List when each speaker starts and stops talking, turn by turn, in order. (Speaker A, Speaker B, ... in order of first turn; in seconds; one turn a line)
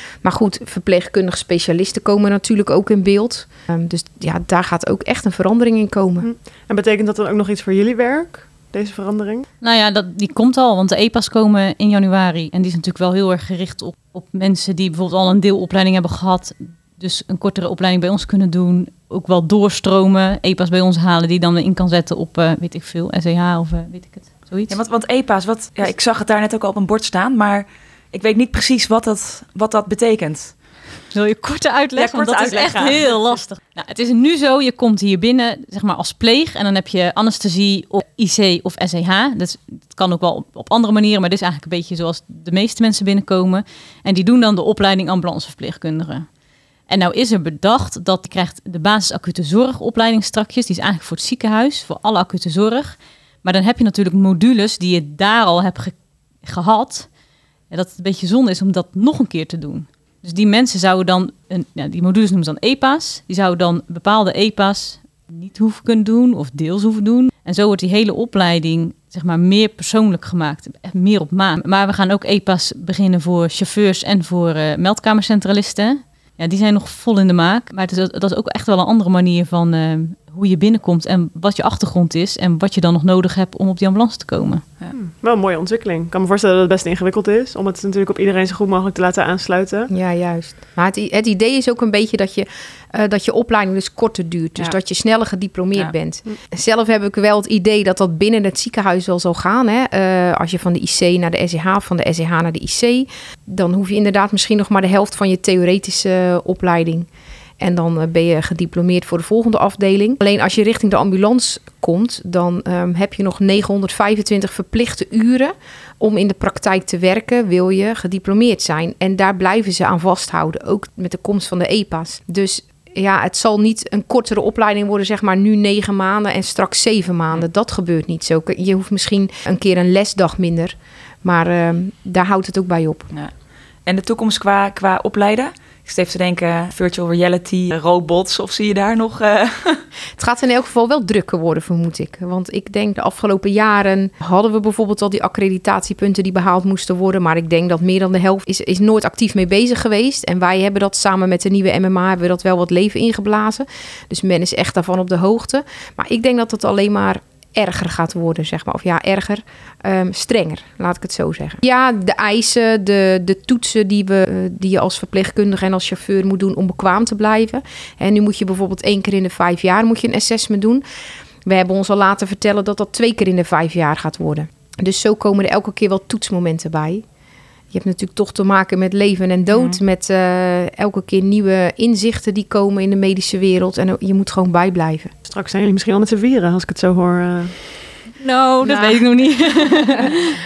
Speaker A: 0.2-6.3
Speaker B: 6.2-9.4
Speaker C: 9.6-24.8
Speaker D: 24.7-30.7
Speaker C: 31.1-46.3
Speaker D: 31.9-33.5
Speaker C: 46.9-57.1
Speaker C: 57.7-84.6
Speaker B: 84.9-89.9
Speaker A: 89.9-107.1
Speaker A: 107.6-133.1
Speaker D: 133.8-139.8
Speaker A: 140.2-170.8
Speaker A: 171.4-177.0
Speaker A: 177.7-185.1
Speaker B: 185.3-187.7
Speaker C: 188.2-190.2
Speaker A: 188.6-189.2